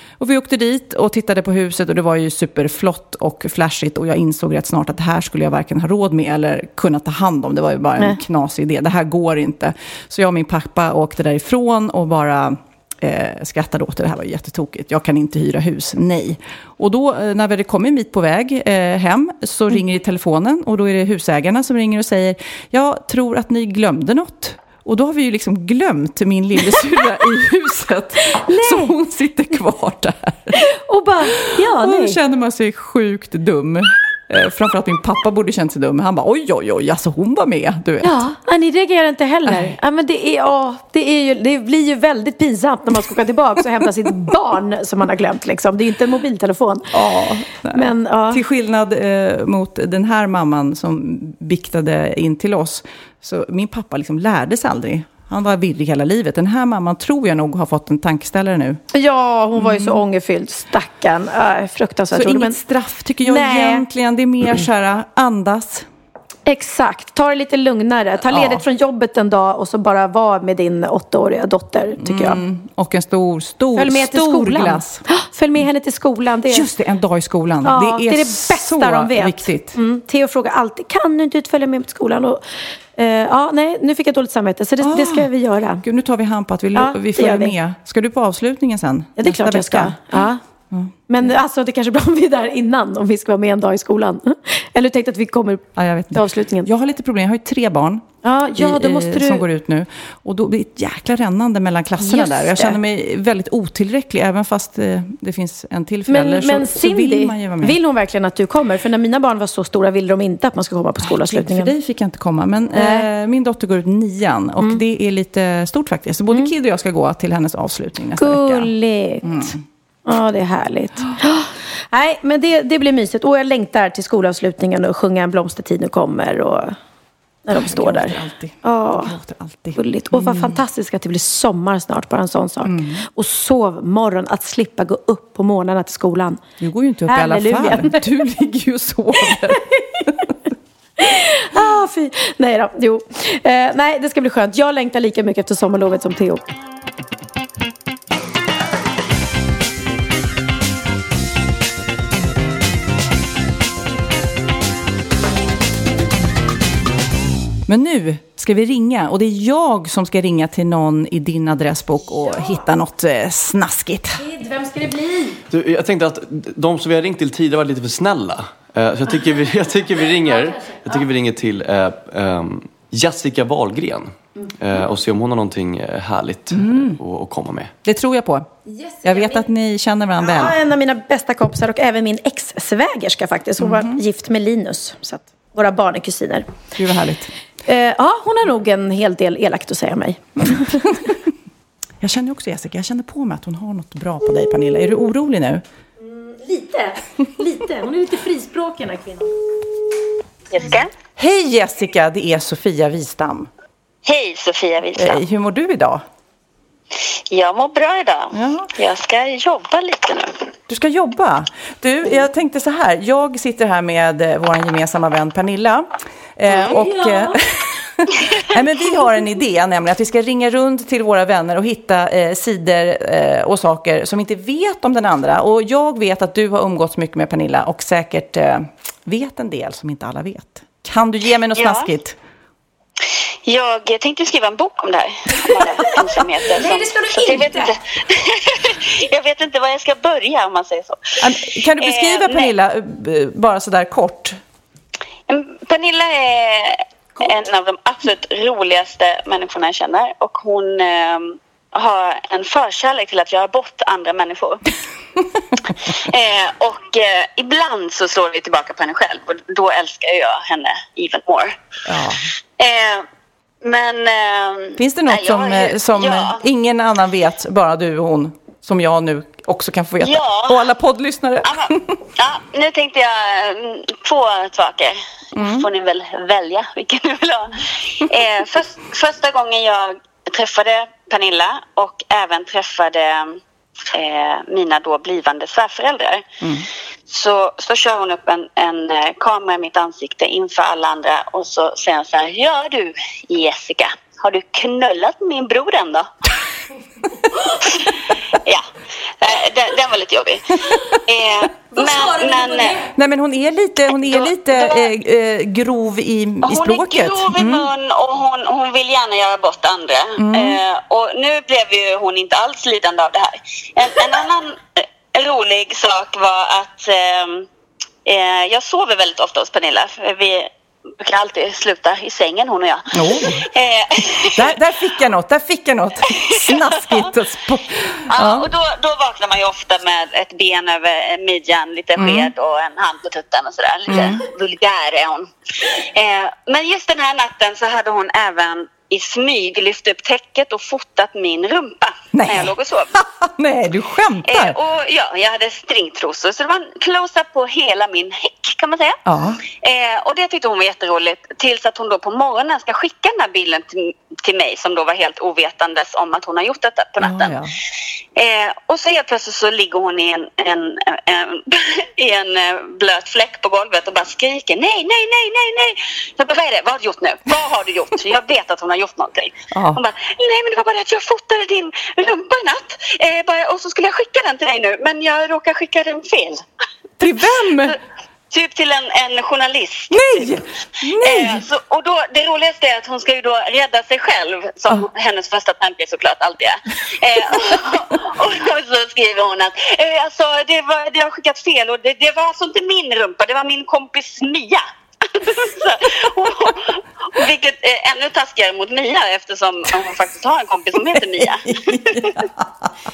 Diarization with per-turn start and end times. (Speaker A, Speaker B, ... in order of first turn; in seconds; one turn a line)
Speaker A: 0.2-30.6
Speaker B: 28.4-28.9
Speaker B: 30.6-32.2
Speaker A: 31.5-38.3
Speaker B: 38.0-46.9
Speaker A: 46.9-58.8
Speaker B: 47.7-48.4
Speaker B: 58.9-62.6
Speaker A: 59.6-60.0
Speaker A: 62.1-65.9
Speaker B: 63.2-63.8
Speaker B: 66.5-72.4
Speaker A: 68.3-68.6
Speaker A: 72.0-75.0
Speaker B: 73.8-76.7
Speaker A: 76.5-79.8
Speaker B: 77.6-82.4
Speaker B: 83.0-85.8
Speaker A: 84.8-85.3
Speaker A: 85.8-90.9
Speaker B: 86.8-87.5
Speaker B: 89.2-90.4
Speaker B: 91.1-96.7
Speaker A: 95.8-107.8
Speaker B: 98.2-99.5
Speaker B: 102.0-102.8
Speaker B: 106.1-111.7
Speaker A: 111.0-118.7
Speaker B: 112.7-113.1
Speaker B: 118.2-119.5
Speaker A: 119.2-119.6
Speaker B: 120.1-126.8
Speaker B: 127.5-129.2
Speaker A: 127.5-130.6
Speaker B: 129.8-136.4
Speaker A: 132.6-133.1
Speaker A: 136.6-140.3
Speaker B: 137.1-138.1
Speaker B: 139.3-140.1
Speaker B: 141.0-146.4
Speaker A: 157.7-164.2
Speaker B: 164.2-165.4
Speaker C: 165.5-177.7
Speaker A: 176.5-177.0
Speaker A: 177.8-178.5
Speaker B: 178.7-179.5
Speaker A: 179.0-180.6
Speaker B: 180.2-186.5
Speaker A: 183.6-184.0
Speaker A: 186.8-187.3
Speaker B: 187.7-191.1
Speaker A: 190.5-191.2
Speaker A: 192.0-195.6
Speaker B: 196.0-199.3
Speaker D: 200.5-200.9
Speaker A: 201.2-203.5
Speaker D: 204.1-205.2
Speaker A: 204.9-206.0
Speaker D: 207.1-210.3
Speaker A: 208.3-208.7
Speaker A: 210.7-232.2
Speaker B: 216.7-217.4
Speaker D: 231.5-231.9
Speaker D: 233.5-242.5
Speaker B: 236.5-237.7
Speaker A: 241.2-244.4
Speaker D: 245.3-254.6
Speaker D: 255.7-261.5
Speaker A: 261.9-262.3
Speaker D: 262.6-263.1
Speaker D: 263.6-266.4
Speaker A: 264.8-272.0
Speaker D: 270.0-270.7
Speaker D: 271.4-283.4
Speaker A: 275.3-275.7
Speaker D: 283.9-286.2
Speaker D: 287.1-296.1
Speaker D: 297.6-298.6
Speaker D: 299.2-302.8
Speaker A: 300.6-301.0
Speaker B: 302.2-302.8
Speaker A: 302.7-307.7
Speaker D: 304.0-304.9
Speaker D: 306.4-317.5
Speaker A: 310.2-310.6
Speaker D: 318.1-324.5
Speaker A: 322.9-323.4
Speaker A: 324.3-328.5
Speaker D: 326.1-327.1
Speaker D: 328.1-343.0
Speaker A: 332.0-332.3
Speaker A: 333.9-334.2
Speaker A: 342.1-344.6
Speaker D: 344.3-357.4
Speaker A: 349.1-349.4
Speaker A: 357.0-357.5
Speaker D: 358.2-376.4
Speaker A: 369.5-369.8
Speaker A: 377.0-377.8
Speaker D: 378.3-402.1
Speaker A: 379.9-381.5
Speaker A: 400.7-402.7